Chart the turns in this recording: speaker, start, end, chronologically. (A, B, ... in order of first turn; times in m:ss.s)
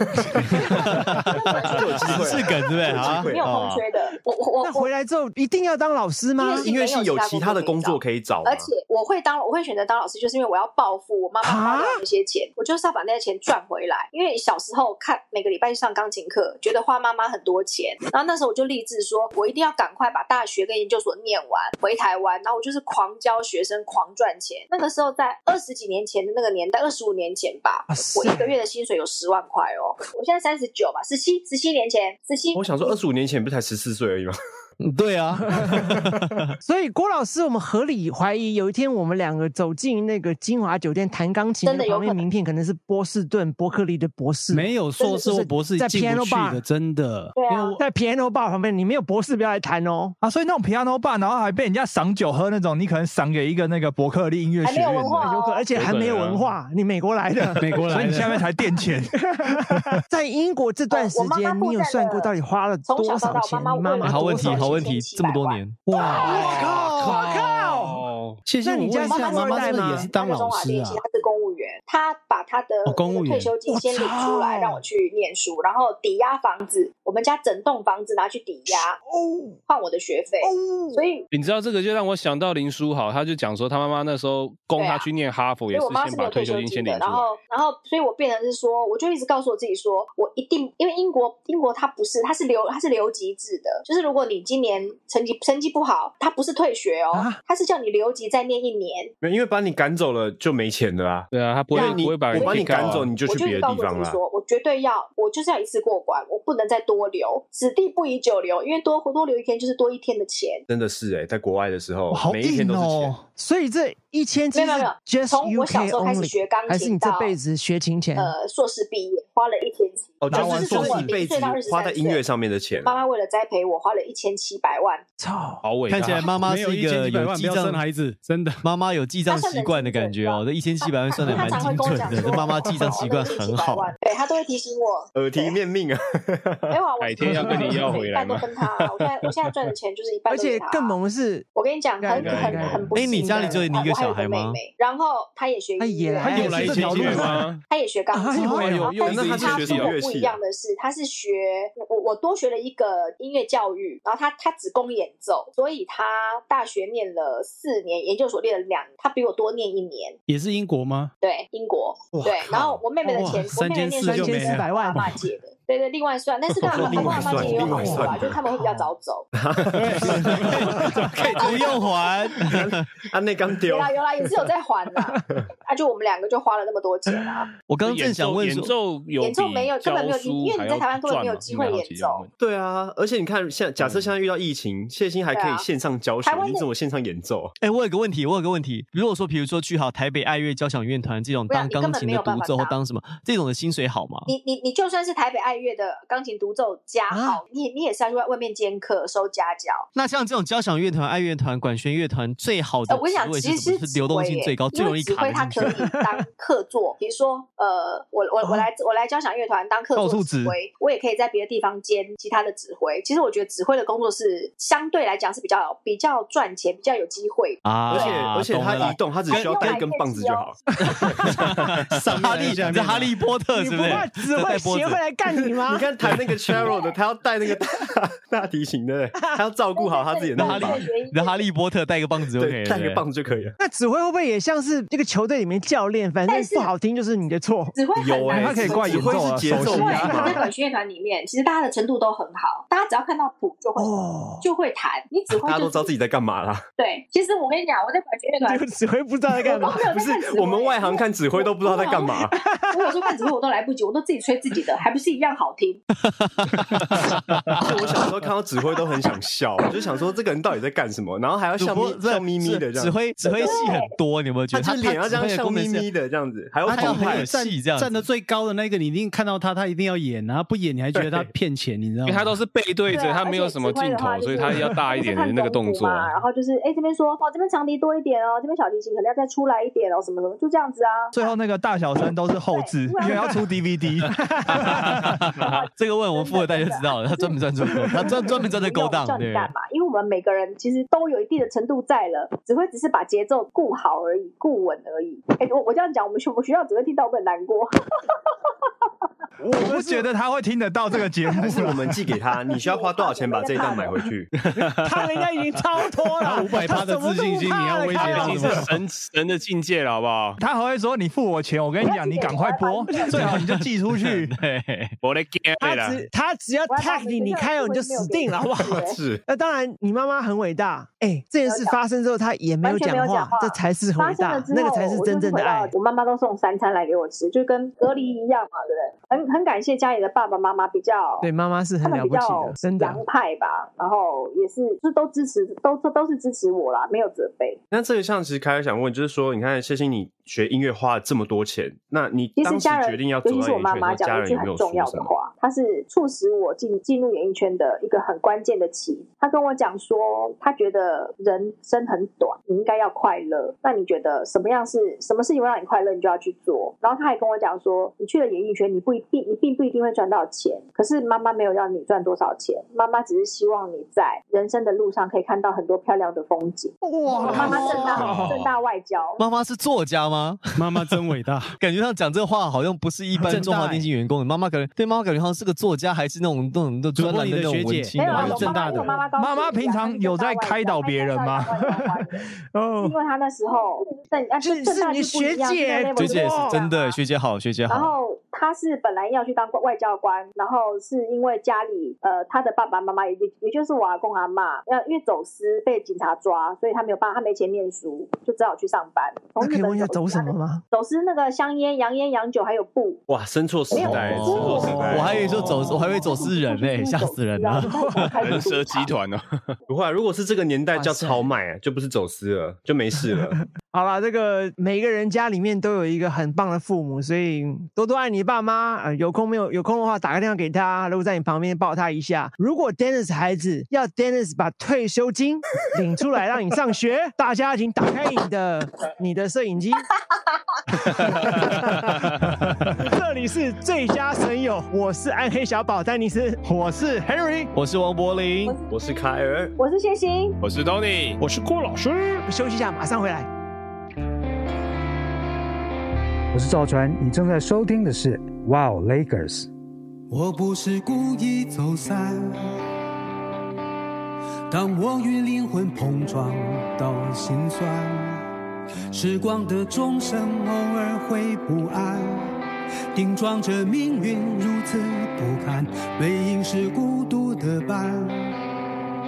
0:00.4-0:03.4 A
0:00.6-0:01.0 B
0:01.3-0:02.4 C
0:02.0-0:03.8 D
0:02.9-0:04.9 C
0:04.6-0:06.7 B
0:06.4-0:33.0 C
0:06.6-0:08.7 A
0:11.4-0:12.0 B
0:27.9-0:28.5 B
0:32.5-0:34.3 A
0:34.8-0:36.5 D
0:35.7-0:36.0 A
0:36.6-0:46.6 B
0:41.6-0:42.2 C
0:44.5-0:47.8 E
0:47.4-0:47.8 C
0:47.8-0:50.2 B
0:50.2-0:55.3 F
0:54.6-0:55.6 C
0:55.2-0:57.8 B
0:55.7-0:56.5 G
0:57.6-0:58.4 E
0:57.8-1:00.0 F
0:59.2-1:04.9 B
1:00.9-1:02.3 C
1:02.8-1:06.1 C
1:04.0-1:05.9 D
1:05.8-1:07.5 E
1:06.0-1:08.0 B
1:06.0-1:08.4 G
1:08.4-1:11.0 E
1:08.6-1:10.1 B
1:09.0-1:19.0 C
1:12.8-1:13.5 E
1:13.7-1:14.8 B
1:18.7-1:19.6 B
1:19.7-1:21.2 C
1:20.4-1:21.0 B
1:21.3-1:27.3 G
1:24.7-1:25.1 C
1:25.7-1:39.1 C
1:37.1-1:37.4 B
1:39.2-1:44.2 A
1:41.3-1:43.1 G
1:41.7-1:50.6 C
1:50.7-1:53.1 A
1:52.1-1:53.2 F
1:53.3-1:58.3 B
1:54.5-1:57.4 C
1:58.2-2:02.2 C
2:00.2-2:03.0 A
2:00.3-2:01.2 F
2:02.8-2:05.0 C
2:05.2-2:05.6 B
2:05.6-2:06.4 G
2:05.9-2:07.8 D
2:06.4-2:08.6 E
2:08.6-2:13.9 D
2:09.3-2:15.6 C
2:15.1-2:16.7 A
2:16.7-2:21.0 C
2:17.0-2:19.5 G
2:17.5-2:17.8 B
2:20.3-2:21.5 B
2:21.5-2:26.6 C
2:22.0-2:23.6 B
2:22.2-2:22.9 G
2:22.9-2:24.6 D
2:25.8-2:27.3 B
2:26.2-2:27.4 F
2:26.3-2:27.4 E
2:26.6-2:27.6 G
2:27.2-2:40.2 C
2:28.1-2:29.0 B
2:28.4-2:29.9 G
2:29.0-2:30.4 A
2:40.3-2:41.1 E
2:41.2-2:49.3 C
2:42.1-2:42.8 A
2:43.0-2:43.4 B
2:43.1-2:44.6 E
2:44.0-2:45.2 B
2:46.6-2:48.4 A
2:46.7-2:48.9 B
2:49.3-2:51.3 A
2:49.7-2:51.7 E
2:50.0-2:52.9 D
2:50.7-2:51.2 B
2:51.2-2:52.1 C
2:52.4-2:54.0 A
2:53.7-2:57.5 C
2:57.7-2:58.7 D
2:57.8-3:02.3 G
2:59.2-3:02.2 C
3:02.4-3:07.5 A
3:05.3-3:05.6 C
3:06.2-3:06.7 C
3:07.6-3:14.3 D
3:11.5-3:12.8 C
3:14.2-3:19.9 C
3:17.1-3:17.4 B
3:19.9-3:26.0 D
3:22.9-3:38.2 C
3:29.9-3:30.6 F
3:37.6-3:39.8 D
3:37.9-3:40.6 A
3:39.3-3:40.5 C
3:40.8-3:41.4 B
3:40.9-3:45.0 D
3:41.9-3:43.1 E
3:43.5-3:45.9 B
3:45.5-3:50.9 A
3:49.7-3:51.5 C
3:50.4-3:53.0 D
3:52.3-3:53.6 A
3:53.6-3:57.7 B
3:56.3-3:56.7 C
3:57.7-4:05.9 C
3:57.9-4:00.4 A
3:58.3-4:00.2 F
3:59.6-4:00.5 B
4:03.8-4:04.4 B
4:05.3-4:06.6 A
4:06.8-4:08.6 C
4:08.4-4:09.8 B
4:09.4-4:15.8 C
4:09.8-4:12.3 A
4:12.3-4:13.1 B
4:16.1-4:17.1 D
4:17.6-4:23.6 A
4:21.6-4:25.9 D
4:23.4-4:23.9 C
4:24.5-4:27.3 A
4:26.6-4:32.4 E
4:26.7-4:28.0 D
4:32.0-4:36.1 G
4:32.9-4:41.3 C
4:41.1-4:44.9 F
4:42.5-4:43.5 C
4:43.1-4:43.3 B
4:44.1-4:44.7 B
4:44.6-4:58.2 C
4:44.9-4:49.5 D
4:59.4-5:00.1 B
4:59.5-5:01.9 F
5:01.4-5:04.3 A
5:02.5-5:04.0 C
5:04.4-5:05.3 G
5:04.6-5:08.7 B
5:06.2-5:08.8 E
5:07.9-5:10.4 G
5:10.4-5:14.3 F
5:11.8-5:13.4 C
5:13.1-5:14.9 D
5:15.0-5:16.0 G
5:15.6-5:25.7 B
5:16.7-5:19.0 C
5:18.6-5:19.2 A
5:21.4-5:21.8 C
5:22.6-5:31.3 C
5:31.2-5:33.0 B
5:31.8-5:37.6 C
5:37.7-5:45.1 A
5:42.4-6:09.2 C
6:06.8-6:08.4 B
6:07.2-6:08.2 D
6:07.4-6:08.4 G
6:09.2-6:10.9 D
6:10.6-6:11.6 E
6:11.6-6:18.9 D
6:13.2-6:13.9 E
6:16.9-6:19.0 E
6:18.0-6:22.2 C
6:19.1-6:21.6 F
6:22.5-6:23.0 B
6:22.8-6:27.0 C
6:24.4-6:26.6 B
6:26.0-6:27.9 D
6:27.7-6:43.0 C
6:39.4-6:40.6 B
6:43.1-6:45.3 A
6:43.7-6:48.9 C
6:43.8-6:48.1 D
6:48.2-6:49.4 G
6:49.7-6:53.4 A
6:50.7-6:51.3 B
6:53.7-7:09.9 B
7:10.9-7:12.1 G
7:11.2-7:11.8 B
7:12.8-7:16.4 B
7:16.4-7:17.5 F
7:17.5-7:18.6 D
7:18.7-7:19.5 A
7:19.6-7:20.4 C
7:20.4-7:21.3 G
7:21.2-7:22.2 F
7:22.2-7:23.3 B
7:26.3-7:29.5 H
7:30.1-7:32.5 I
7:34.5-7:38.2 I
7:38.9-7:42.4 I
7:42.9-7:48.4 I